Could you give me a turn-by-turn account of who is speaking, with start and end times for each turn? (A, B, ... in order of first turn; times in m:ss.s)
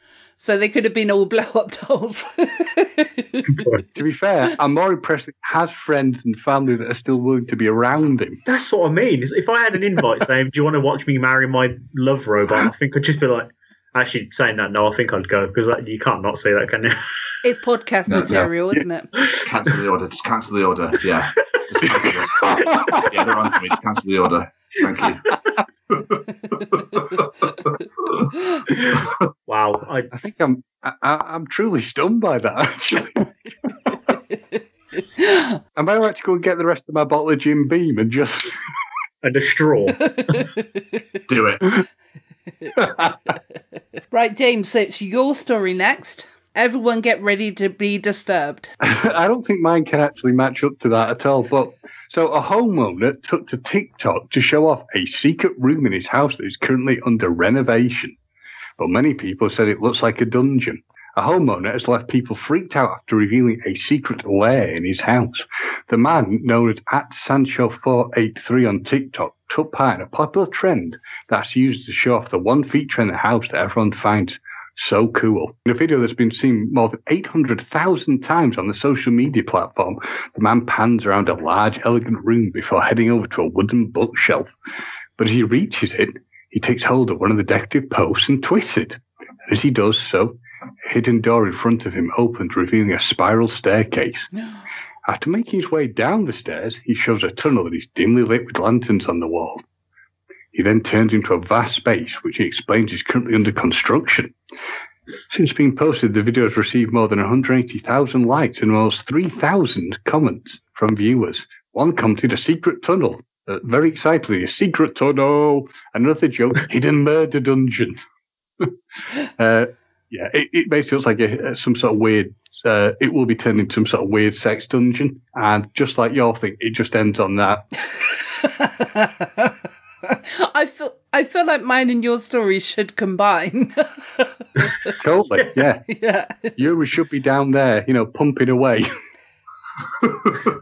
0:00.4-0:03.4 A
0:03.6-0:03.8 B
0:04.0-0:08.4 C
0:08.4-0:17.0 B
0:17.4-0:19.1 A
0:18.1-0:18.4 D
0:19.4-0:25.2 D
0:22.4-0:23.0 C
0:29.5-0:30.1 B
0:30.1-0:33.3 C
0:35.2-0:35.6 A
0:35.8-0:38.6 C
0:39.2-0:40.4 B
0:40.2-0:40.4 A
0:41.3-0:41.6 D
0:42.8-0:43.3 C
0:44.1-0:48.7 A
0:48.8-0:58.1 C
0:58.8-1:24.5 C
1:25.2-1:34.3 C
1:35.0-1:39.6 C
1:40.5-1:44.3 C
1:45.3-1:58.0 C
1:59.4-2:07.6 C
2:08.1-2:09.5 A
2:10.1-2:14.9 A
2:15.0-2:15.8 C
2:15.9-2:16.6 A
2:16.6-2:18.9 C